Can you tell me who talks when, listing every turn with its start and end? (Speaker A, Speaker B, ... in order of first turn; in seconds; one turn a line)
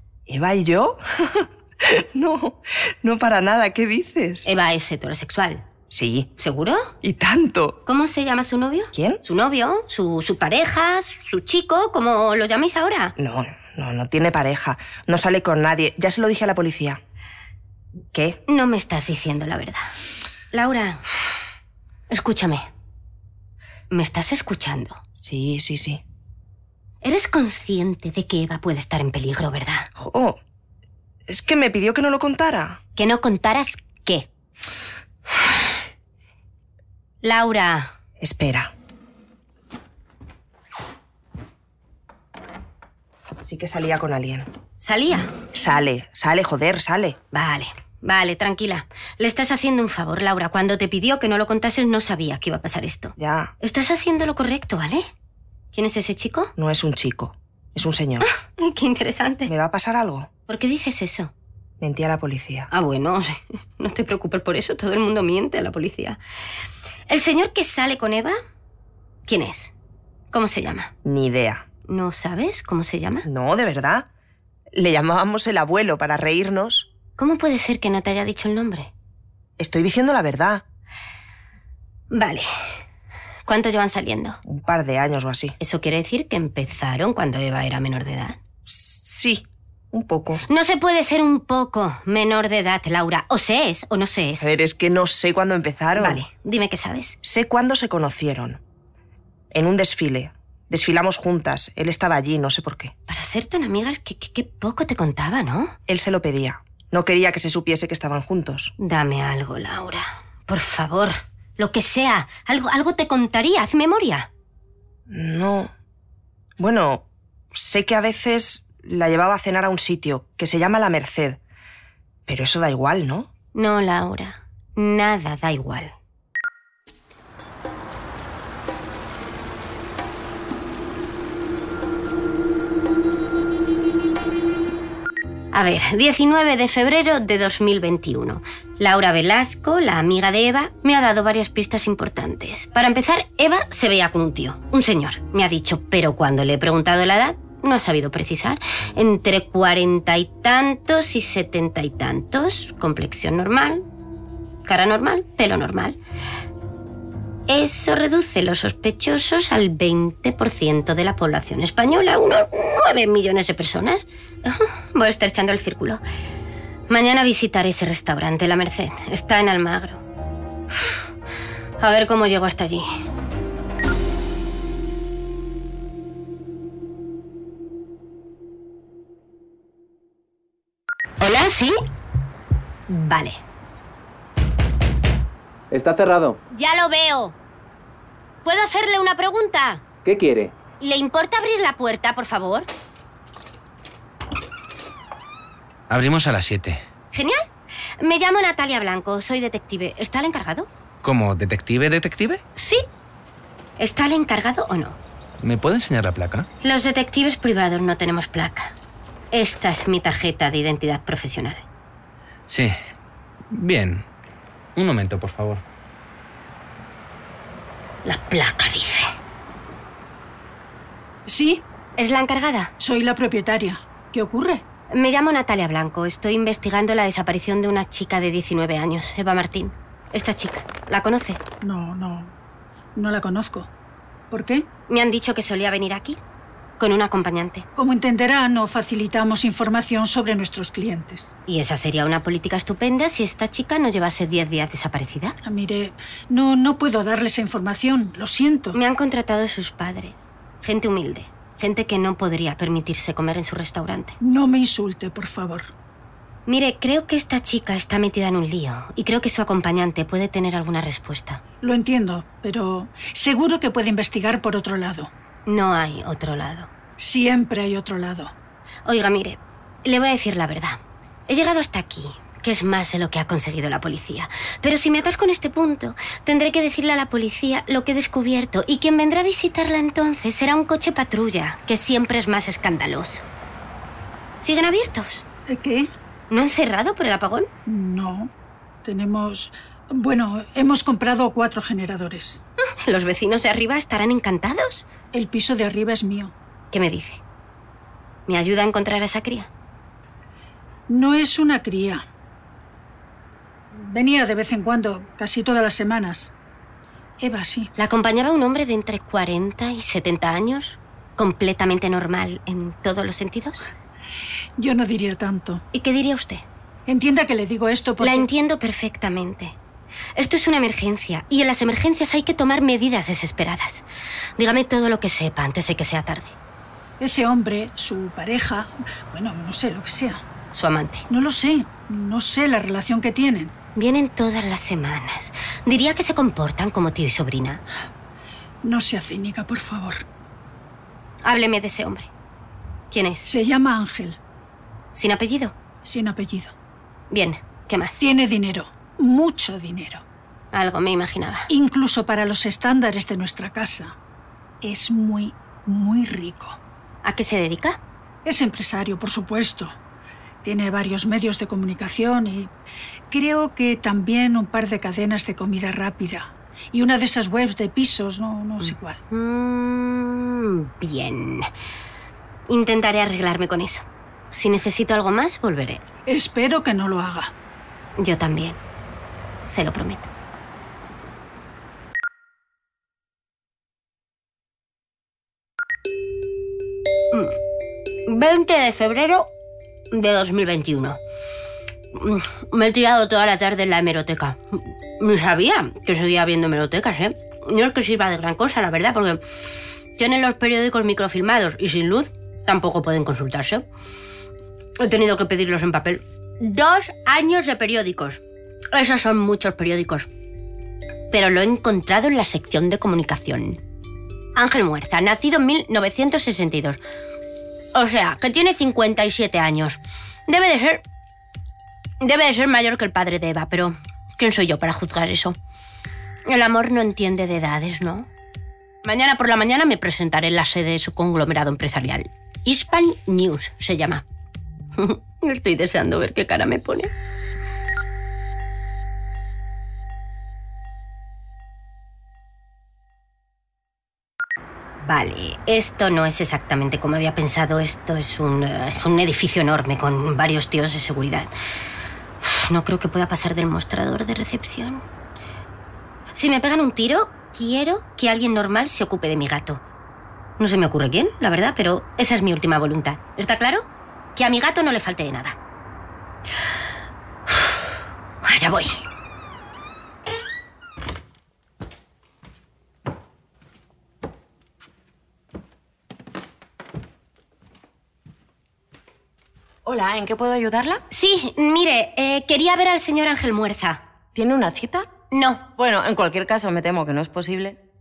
Speaker A: 0.3-4.5
Speaker B: 4.5-5.6
Speaker A: 5.9-6.3
Speaker B: 6.4-6.9
Speaker A: 7.0-7.8
Speaker B: 7.9-13.2
Speaker A: 8.9-9.2
Speaker A: 13.2-17.0
Speaker A: 18.1-18.4
Speaker B: 18.5-19.9
Speaker B: 20.5-21.0
Speaker B: 22.1-22.7
Speaker B: 23.9-25.0
Speaker A: 25.2-26.0
Speaker B: 27.0-29.9
Speaker A: 30.0-30.4
Speaker A: 31.3-32.8
Speaker B: 33.0-34.3
Speaker B: 37.2-37.9
Speaker A: 38.2-38.7
Speaker A: 43.4-44.5
Speaker B: 44.8-45.3
Speaker A: 45.5-47.2
Speaker B: 47.3-55.1
Speaker A: 53.2-53.5
Speaker B: 55.7-56.5
Speaker A: 56.6-58.3
Speaker B: 58.2-59.5
Speaker A: 59.5-60.3
Speaker B: 60.5-61.3
Speaker A: 61.8-62.7
Speaker B: 62.7-66.2
Speaker B: 67.1-68.4
Speaker B: 69.3-69.7
Speaker B: 70.3-70.9
Speaker A: 71.0-71.7
Speaker B: 71.9-73.3
Speaker A: 73.3-74.1
Speaker A: 74.7-76.9
Speaker B: 77.2-78.9
Speaker A: 79.6-80.6
Speaker B: 82.1-82.5
Speaker B: 83.5-84.4
Speaker A: 84.5-85.6
Speaker B: 85.6-88.4
Speaker A: 88.7-90.4
Speaker B: 90.5-94.5
Speaker A: 94.4-96.2
Speaker B: 96.0-97.2
Speaker A: 97.2-98.6
Speaker A: 99.5-102.9
Speaker B: 103.1-105.8
Speaker A: 105.9-108.7
Speaker B: 108.8-114.3
Speaker A: 115.1-115.7
Speaker A: 116.6-121.4
Speaker A: 122.3-123.3
Speaker B: 123.5-125.9
Speaker B: 135.5-153.8
Speaker B: 154.7-156.0
Speaker B: 157.5-166.0
Speaker B: 166.9-170.0
Speaker B: 171.8-172.9
Speaker B: 181.2-181.8
Speaker B: 182.9-183.4
Speaker C: 185.7-186.4
Speaker B: 186.5-187.4
Speaker B: 188.4-189.8
Speaker C: 190.1-190.5
Speaker B: 190.8-192.7
Speaker C: 195.9-196.8
Speaker B: 197.1-197.4
Speaker B: 198.0-200.7
Speaker C: 201.0-202.4
Speaker B: 202.6-202.8
Speaker B: 203.8-205.0
Speaker C: 205.4-206.5
Speaker B: 206.6-208.8
Speaker B: 209.3-211.6
Speaker C: 213.5-214.0
Speaker C: 214.8-215.6
Speaker B: 218.1-219.1
Speaker D: 221.3-221.7
Speaker B: 222.0-222.7
Speaker D: 222.8-224.6
Speaker B: 224.9-231.4
Speaker D: 231.6-232.3
Speaker D: 233.0-233.7
Speaker D: 234.3-234.7
Speaker B: 234.9-236.2
Speaker B: 236.8-237.7
Speaker D: 237.8-241.3
Speaker B: 241.5-245.4
Speaker D: 245.4-248.8
Speaker B: 248.7-254.2
Speaker D: 254.2-255.7
Speaker B: 256.5-261.4
Speaker D: 261.6-265.1
Speaker B: 265.5-266.7
Speaker D: 267.0-268.3
Speaker B: 268.9-283.3
Speaker B: 284.4-285.2
Speaker D: 285.5-285.9
Speaker B: 286.3-287.5
Speaker D: 287.7-288.3
Speaker D: 288.8-292.4
Speaker B: 292.8-294.9
Speaker D: 295.1-296.3
Speaker B: 296.7-297.2
Speaker B: 298.3-299.5
Speaker D: 300.9-302.0
Speaker D: 303.7-306.3
Speaker D: 307.2-307.7
Speaker B: 307.8-313.6
Speaker D: 314.6-315.6
Speaker B: 315.7-316.5
Speaker D: 316.9-318.3
Speaker B: 318.0-319.6
Speaker B: 320.2-323.9
Speaker B: 324.4-326.4
Speaker D: 327.0-330.2
Speaker B: 330.5-331.1
Speaker D: 331.1-333.5
Speaker B: 333.8-337.6
Speaker D: 338.6-340.1
Speaker B: 341.2-342.1
Speaker B: 342.9-343.3
Speaker D: 343.2-344.2
Speaker B: 344.9-345.6
Speaker D: 345.8-346.5
Speaker B: 347.1-348.0
Speaker D: 348.0-350.0
Speaker B: 350.5-351.5
Speaker D: 351.5-353.9
Speaker D: 354.6-356.6
Speaker B: 357.0-357.8
Speaker D: 358.2-359.7
Speaker D: 360.4-362.5
Speaker D: 363.1-369.0
Speaker B: 368.6-371.5
Speaker B: 372.5-375.8
Speaker D: 376.1-377.3
Speaker B: 378.0-378.6
Speaker B: 379.5-380.1
Speaker B: 388.1-389.3
Speaker B: 389.9-391.0
Speaker B: 391.9-399.2
Speaker B: 400.0-403.6
Speaker B: 404.8-408.2
Speaker B: 408.7-410.1
Speaker B: 411.1-413.6
Speaker B: 414.4-416.8
Speaker B: 417.7-420.8
Speaker B: 422.0-425.4
Speaker B: 426.3-428.1
Speaker B: 428.8-434.0
Speaker B: 434.8-436.9
Speaker B: 444.8-451.3
Speaker B: 452.2-454.8
Speaker B: 456.1-459.6
Speaker B: 460.4-465.4
Speaker B: 468.2-468.8
Speaker E: 479.6-480.8
Speaker B: 480.9-483.8
Speaker E: 484.1-484.9
Speaker B: 485.1-485.4
Speaker E: 485.6-487.6